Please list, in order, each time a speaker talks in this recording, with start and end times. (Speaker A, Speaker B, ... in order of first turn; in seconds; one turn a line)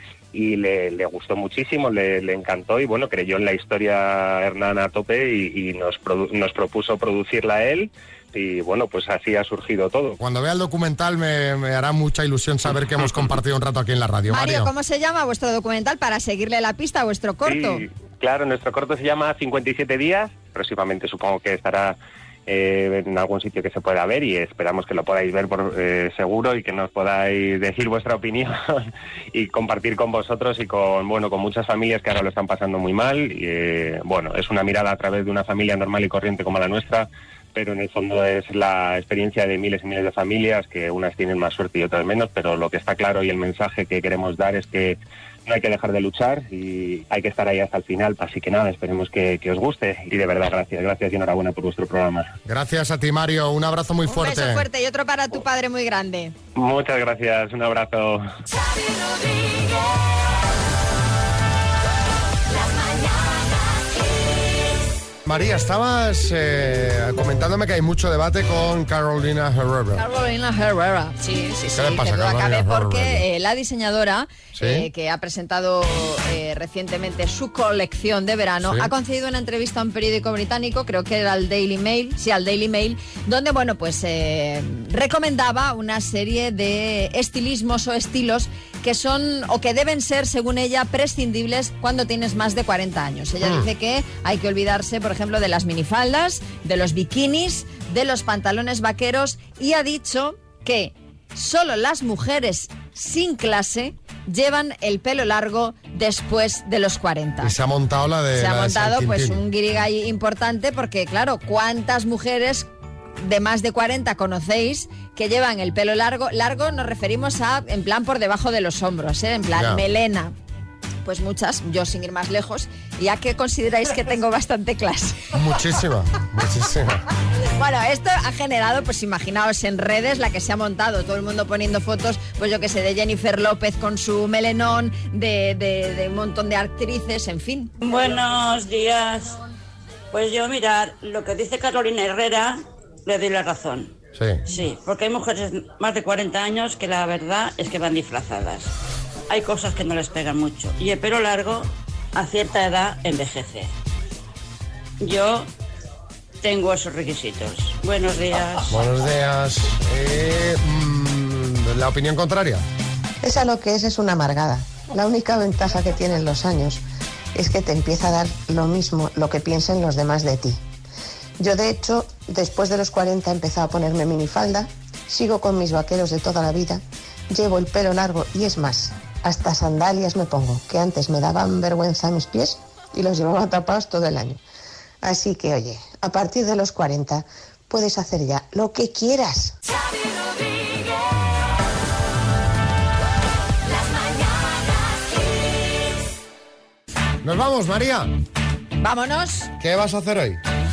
Speaker A: 0.3-10.2
Speaker B: 10.2-14.7
Speaker C: 14.3-17.8
Speaker A: 17.4-21.9
Speaker A: 22.5-52.3
Speaker B: 52.5-54.6
Speaker C: 54.1-56.3
Speaker A: 56.5-58.2
Speaker B: 65.2-70.0
Speaker C: 70.0-107.5
Speaker B: 71.7-73.2
Speaker B: 74.5-74.9
Speaker B: 78.6-78.9
Speaker B: 93.4-93.7
Speaker B: 107.4-109.4
Speaker C: 108.3-112.7
Speaker C: 113.2-120.3
Speaker B: 119.5-119.8
Speaker C: 121.0-125.2
Speaker B: 125.3-127.0
Speaker C: 127.6-137.7
Speaker D: 137.8-139.4
Speaker D: 140.1-143.9
Speaker B: 144.1-144.4
Speaker D: 144.5-148.7
Speaker D: 149.3-153.7
Speaker D: 155.0-155.5
Speaker D: 156.4-158.8
Speaker B: 158.7-162.6
Speaker E: 163.2-166.8
Speaker E: 167.3-170.6
Speaker E: 171.4-184.4
Speaker E: 185.0-189.5
Speaker B: 197.2-198.1
Speaker C: 198.8-199.5
Speaker B: 199.6-200.4